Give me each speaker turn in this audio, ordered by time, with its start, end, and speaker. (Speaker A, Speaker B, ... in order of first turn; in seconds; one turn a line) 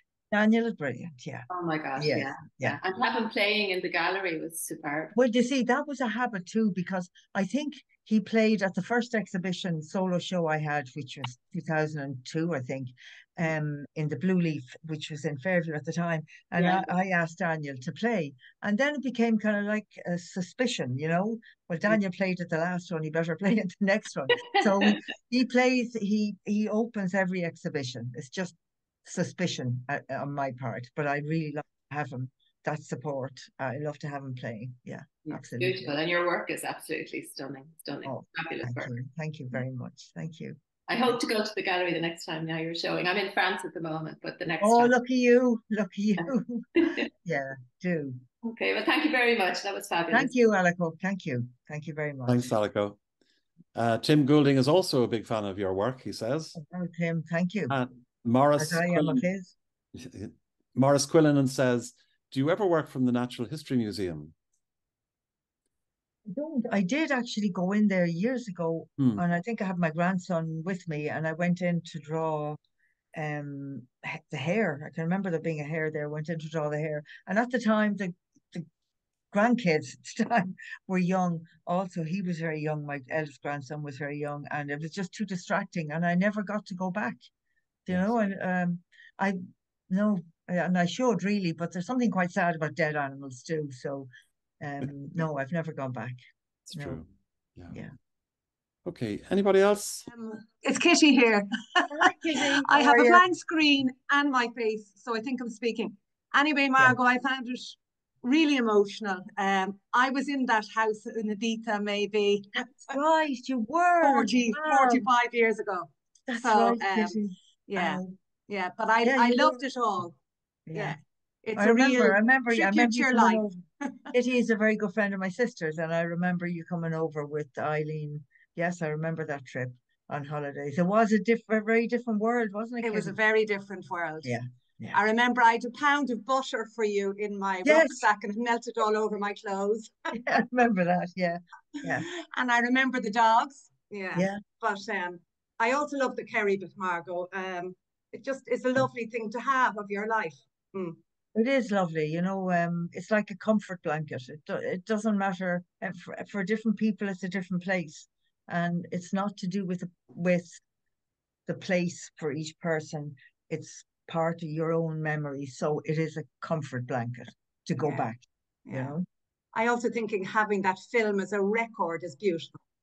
Speaker A: 0.3-2.8
Speaker B: 1.5-5.1
Speaker A: 5.1-35.9
Speaker B: 16.6-16.8
Speaker B: 35.2-38.9
Speaker A: 38.0-41.2
Speaker B: 40.9-45.0
Speaker A: 44.6-46.7
Speaker B: 46.2-47.1
Speaker A: 47.2-48.2
Speaker B: 48.4-50.3
Speaker A: 50.1-52.5
Speaker C: 52.3-53.0
Speaker C: 53.7-56.5
Speaker A: 56.5-57.7
Speaker C: 57.7-59.2
Speaker A: 58.6-59.5
Speaker C: 59.9-64.3
Speaker A: 66.3-72.6
Speaker A: 73.1-78.7
Speaker A: 79.3-87.2
Speaker A: 87.8-94.1
Speaker A: 94.6-96.2
Speaker C: 96.7-97.8
Speaker A: 96.8-97.0
Speaker C: 98.8-100.0
Speaker D: 100.1-112.9
Speaker A: 101.9-103.2
Speaker A: 112.6-115.1
Speaker D: 114.0-120.2
Speaker A: 116.3-118.1
Speaker A: 119.0-119.6
Speaker A: 120.7-121.0
Speaker D: 120.7-124.1
Speaker A: 121.5-123.5
Speaker A: 124.1-133.2
Speaker D: 132.8-134.3
Speaker A: 134.2-135.0
Speaker D: 134.9-140.1
Speaker A: 137.6-138.0
Speaker A: 140.1-142.1
Speaker D: 141.8-151.0
Speaker A: 144.1-144.4
Speaker A: 151.3-160.6
Speaker A: 161.5-169.0
Speaker D: 167.8-168.1
Speaker D: 168.7-168.9
Speaker D: 169.5-172.6